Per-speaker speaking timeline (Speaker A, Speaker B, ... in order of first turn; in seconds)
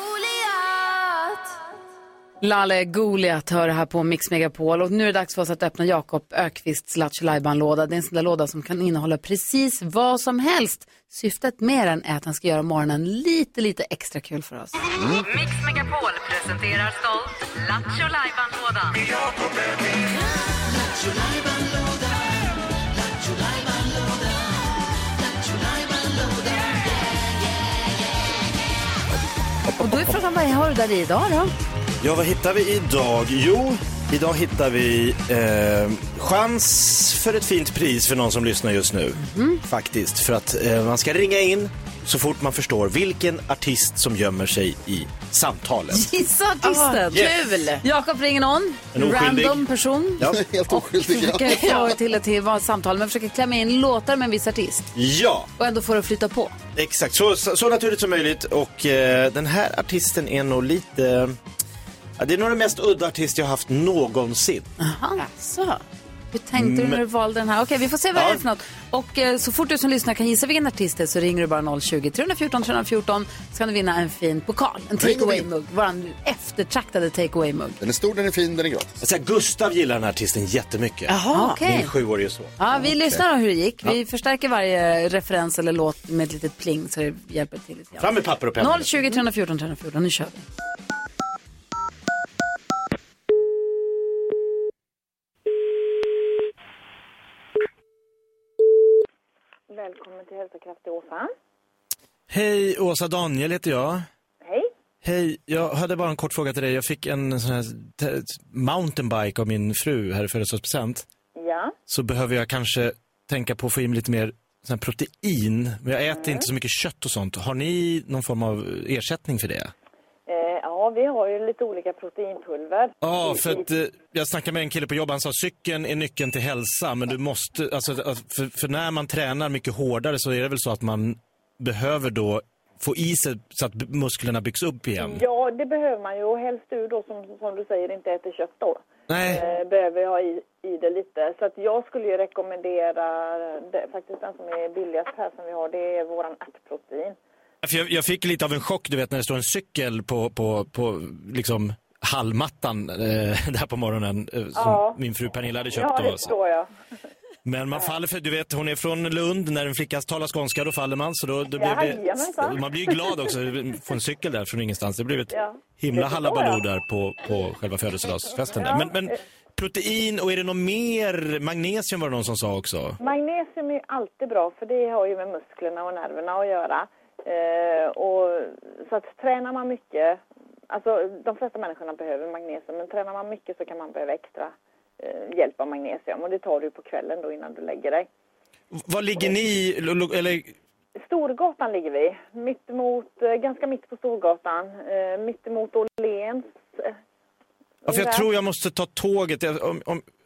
Speaker A: 2.4-14.7, 29.8-31.5, 39.2-39.6, 45.9-47.3, 47.8-54.9, 55.6-56.6, 64.8-65.2, 66.3-77.8, 81.3-81.9, 82.6-90.4
Speaker B: 15.0-15.3, 50.2-51.9, 75.0-75.5, 77.8-79.0
Speaker C: 15.5-16.9, 17.7-18.6
Speaker D: 32.0-46.1, 47.1-47.4, 48.9-49.6, 55.0-55.5, 56.8-61.4, 62.2-64.7, 66.6-67.0, 68.1-68.4, 79.0-82.5, 88.0-89.0, 102.3-104.0, 105.0-111.0, 111.9-119.7, 123.0-135.2, 139.1-139.4, 147.6-156.3, 157.4-173.0, 188.7-190.5, 197.9-200.1
Speaker E: 46.6-47.8, 51.5-51.9, 65.2-65.8, 81.1-81.6
Speaker F: 99.7-101.3, 104.4-104.7, 111.4-111.7, 116.1-116.5, 120.3-123.7, 135.0-147.2, 154.6-155.0, 155.7-156.7, 161.6-163.2, 165.3-166.6, 168.6-169.1, 173.0-188.1, 191.0-196.9, 197.8-198.3